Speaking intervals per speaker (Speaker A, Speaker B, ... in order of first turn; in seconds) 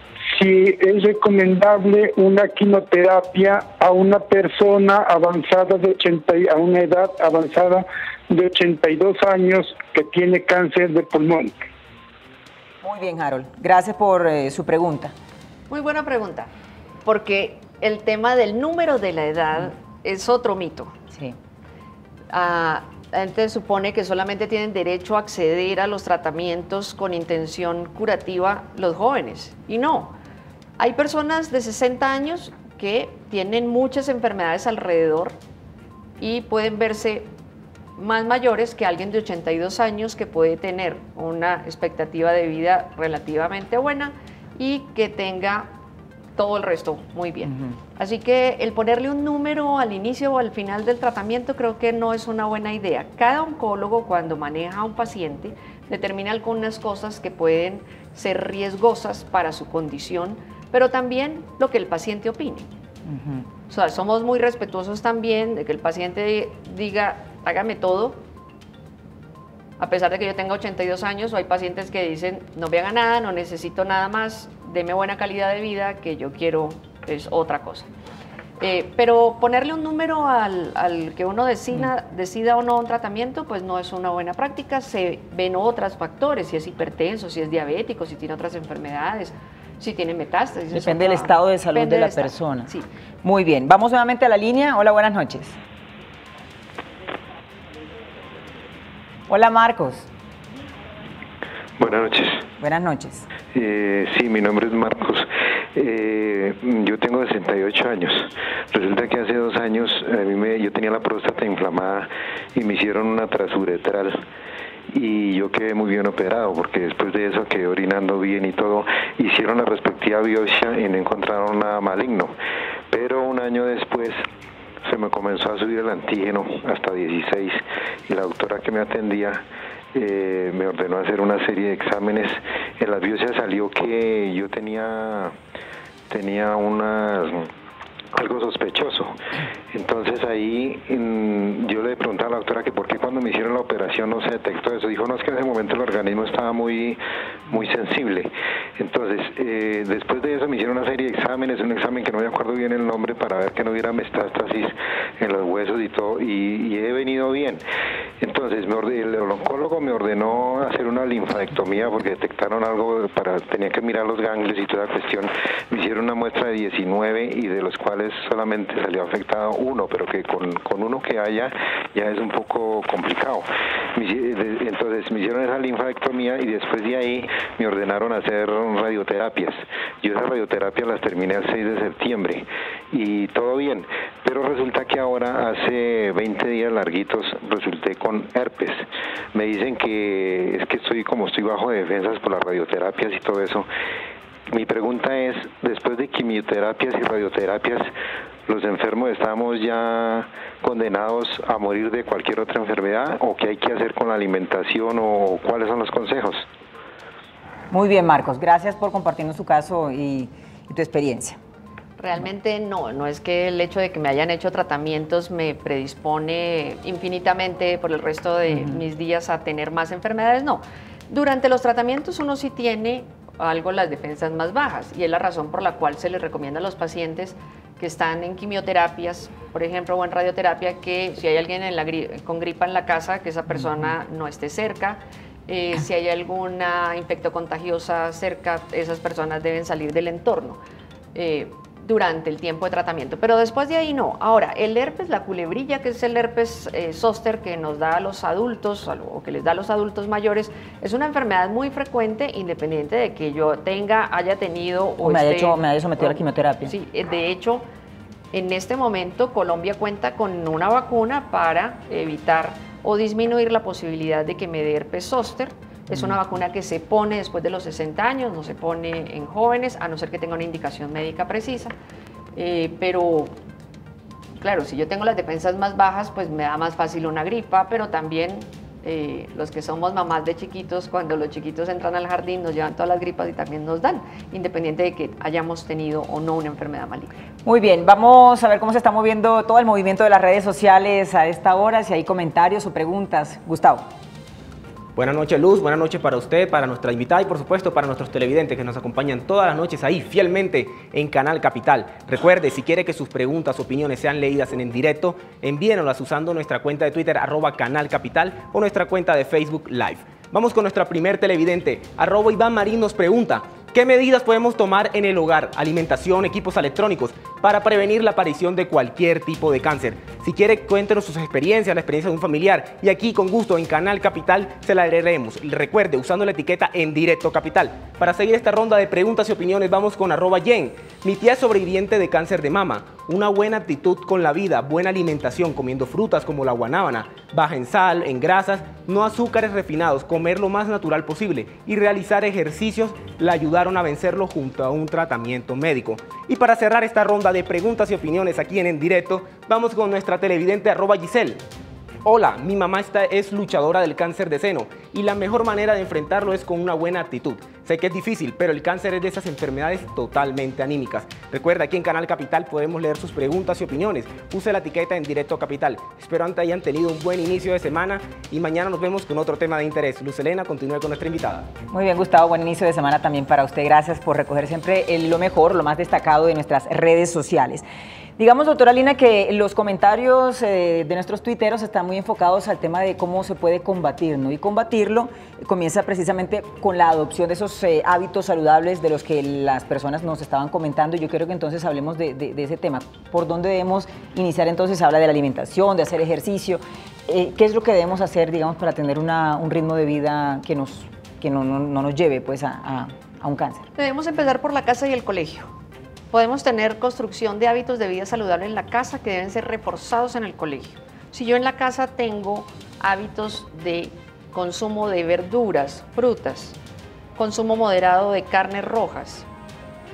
Speaker A: 0.3-11.5
Speaker B: 12.8-15.1, 47.5-47.8, 63.1-63.5, 90.7-92.7, 93.2-95.6, 99.3-100.1, 102.6-103.3, 207.7-211.4, 218.5-218.8, 255.0-256.7, 287.4-293.9, 371.7-377.6, 378.2-403.7
Speaker C: 15.7-16.5, 17.1-20.9, 22.3-30.1, 30.8-35.4, 36.2-37.3, 38.0-45.7, 46.4-62.7, 63.7-68.2, 69.8-77.9, 78.6-92.9, 212.0-240.6, 241.1-257.6, 258.3-271.7, 272.4-273.3, 274.4-287.1, 403.8-405.5, 406.1-416.6, 417.2-419.3
Speaker D: 101.8-102.5, 103.5-114.2, 114.9-122.3, 122.9-124.2, 124.8-135.4, 136.1-137.5, 138.1-139.2, 139.7-157.6, 158.2-193.7, 194.5-197.9, 198.5-206.5
Speaker E: 294.9-351.4, 352.0-371.5